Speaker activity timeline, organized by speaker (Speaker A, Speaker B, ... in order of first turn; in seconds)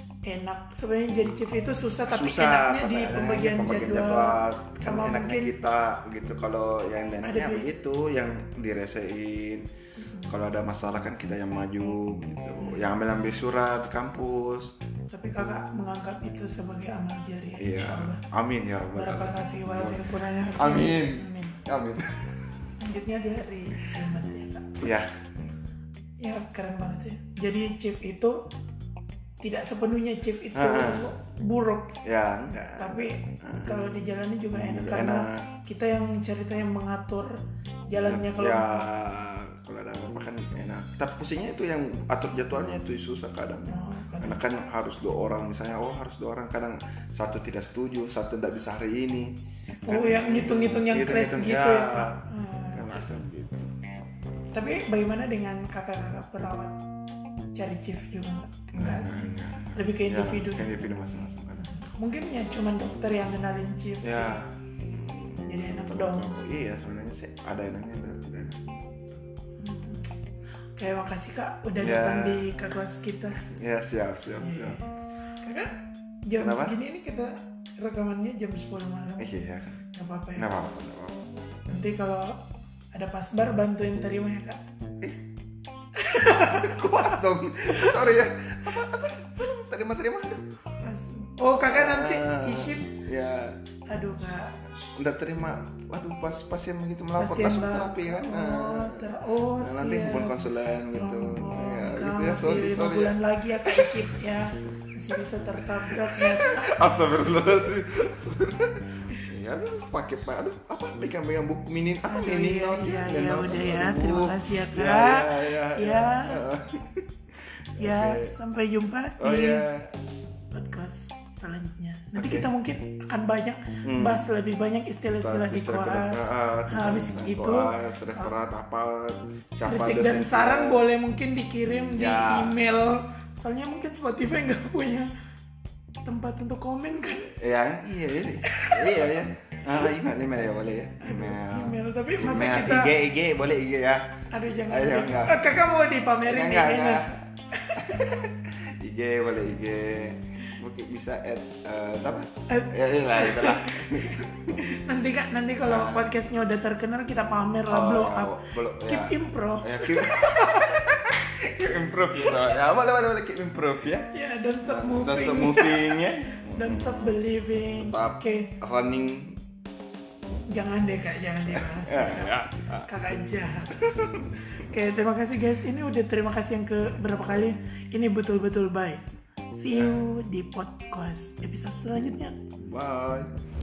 Speaker A: 0.2-5.5, 7.2-7.7, 10.0-10.4, 12.6-12.9, 15.1-18.2, 18.9-21.6, 22.8-24.8, 26.2-28.4, 29.4-32.0, 32.8-38.9, 43.7-44.4, 49.8-53.0, 54.5-56.8, 57.5-60.7, 61.6-64.4, 65.5-66.4, 69.6-70.1, 70.8-73.5, 74.4-79.3, 79.9-80.5, 81.7-84.6, 86.0-87.1, 87.6-88.0, 90.8-92.9, 93.9-94.6, 97.2-106.8, 112.1-116.5, 117.8-119.7, 120.5-128.3, 129.7-135.1, 136.0-137.4, 138.5-139.1, 141.0-142.9, 144.3-147.8, 152.5-160.8, 164.1-166.0, 166.6-168.5, 170.5-179.0, 179.5-182.4
Speaker B: 2.1-9.7, 10.3-14.7, 17.6-22.4, 24.8-25.2, 30.5-31.1, 32.0-33.9, 34.5-35.5, 38.1-52.2, 52.7-53.7, 58.7-61.7, 64.0-68.7, 71.8-72.5, 73.4-74.8, 76.4-76.8, 79.2-79.8, 80.3-81.3, 86.1-90.5, 91.5-93.6, 94.8-104.0, 105.9-117.1, 117.8-118.3, 119.2-120.0, 122.2-122.5, 123.8-124.2, 125.2-130.8, 131.9-132.6, 137.3-145.5, 146.2-154.8, 155.6-156.1, 157.7-164.1, 164.7-169.4, 171.5-172.9, 173.8-174.3, 179.7-180.0, 182.6-183.3